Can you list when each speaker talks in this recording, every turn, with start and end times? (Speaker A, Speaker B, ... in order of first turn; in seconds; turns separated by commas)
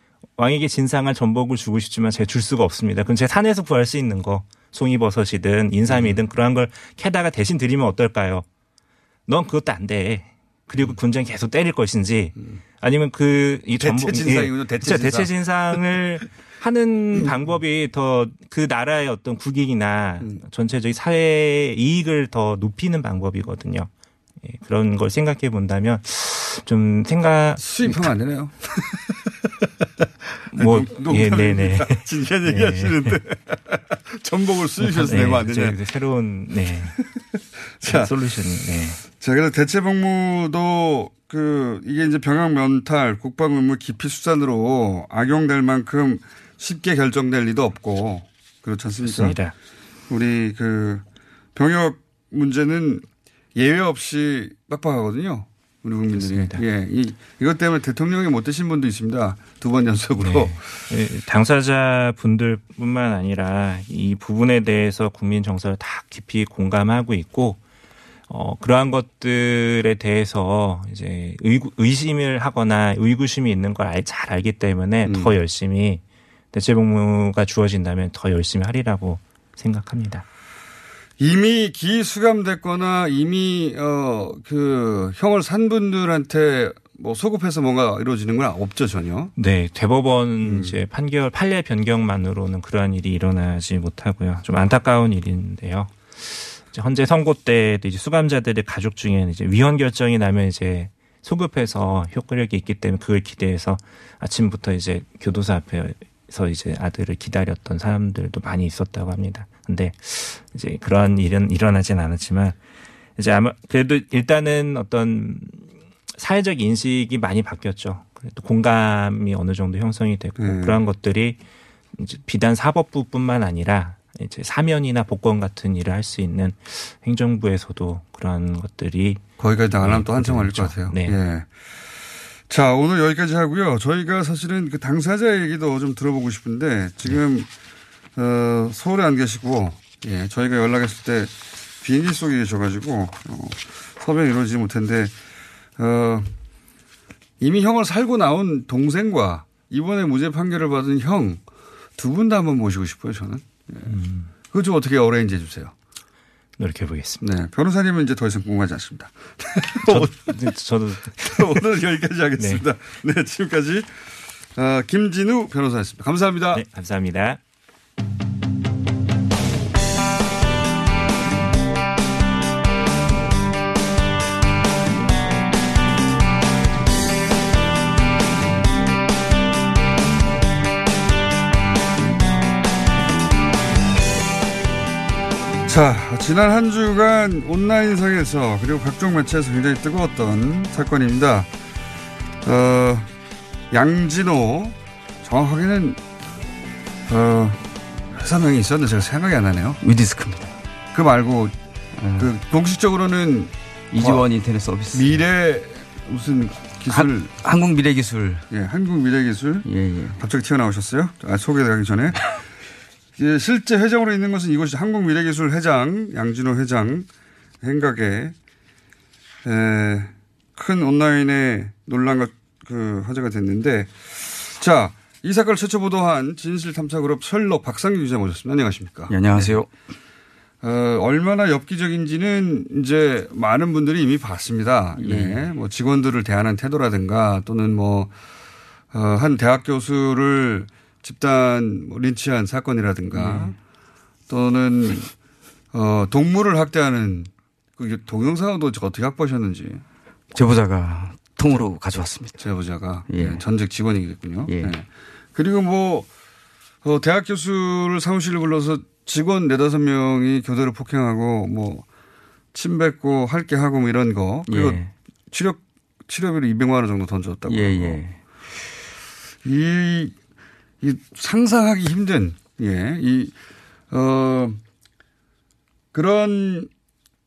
Speaker A: 0.4-8.4, Speaker B: 5.9-6.2, Speaker A: 9.3-23.9, Speaker B: 13.8-15.3, Speaker A: 24.4-28.1, Speaker B: 27.6-29.3, Speaker A: 30.5-33.2, Speaker B: 30.5-35.8, Speaker A: 34.8-37.0, Speaker B: 37.8-38.1, Speaker A: 37.9-39.0, Speaker B: 39.1-49.4, Speaker A: 49.0-49.5, Speaker B: 50.1-51.0, Speaker B: 51.5-60.6, Speaker A: 56.1-56.6, Speaker A: 60.2-67.6, Speaker A: 68.3-76.0, Speaker B: 75.1-75.3, Speaker A: 76.5-80.2, Speaker B: 81.2-89.3, Speaker A: 89.4-112.6, Speaker B: 90.4-90.8, Speaker A: 113.2-121.4, Speaker B: 120.4-120.8, Speaker A: 121.9-129.2, Speaker B: 129.4-131.5, Speaker A: 129.8-131.2, Speaker B: 132.5-137.5, Speaker B: 138.2-145.1, Speaker B: 145.8-146.3, Speaker B: 147.4-151.4, Speaker B: 152.0-153.9, Speaker A: 153.9-154.3, Speaker B: 154.5-155.7, Speaker A: 156.6-157.3, Speaker B: 157.2-160.3, Speaker A: 159.8-161.6, Speaker B: 161.2-164.0, Speaker A: 162.4-162.6, Speaker B: 164.6-166.6, Speaker A: 166.5-167.4, Speaker B: 185.7-191.5, Speaker B: 192.4-193.1, Speaker B: 193.7-196.0, Speaker B: 197.1-197.6, Speaker B: 198.1-199.8, Speaker C: 199.8-200.5, Speaker B: 200.9-201.6, Speaker C: 202.0-202.3, Speaker B: 202.2-204.3, Speaker C: 203.9-205.1, Speaker B: 204.9-207.3, Speaker C: 206.9-208.4, Speaker B: 208.5-209.7, Speaker C: 209.7-210.2, Speaker B: 210.2-212.3, Speaker B: 213.2-217.1, Speaker B: 217.6-218.3, Speaker B: 219.4-229.6, Speaker C: 229.1-229.7, Speaker B: 230.6-238.1, Speaker C: 235.0-235.5, Speaker B: 238.9-243.6, Speaker C: 243.1-243.6, Speaker B: 244.3-245.1, Speaker B: 245.7-249.8, Speaker C: 250.3-252.5, Speaker B: 252.4-256.1, Speaker C: 253.1-253.4, Speaker C: 254.5-254.8, Speaker B: 256.8-261.9, Speaker B: 262.5-268.0, Speaker C: 264.5-264.9, Speaker C: 267.5-268.2, Speaker B: 269.4-270.1, Speaker B: 270.8-273.3, Speaker B: 273.9-274.6, Speaker B: 275.9-276.7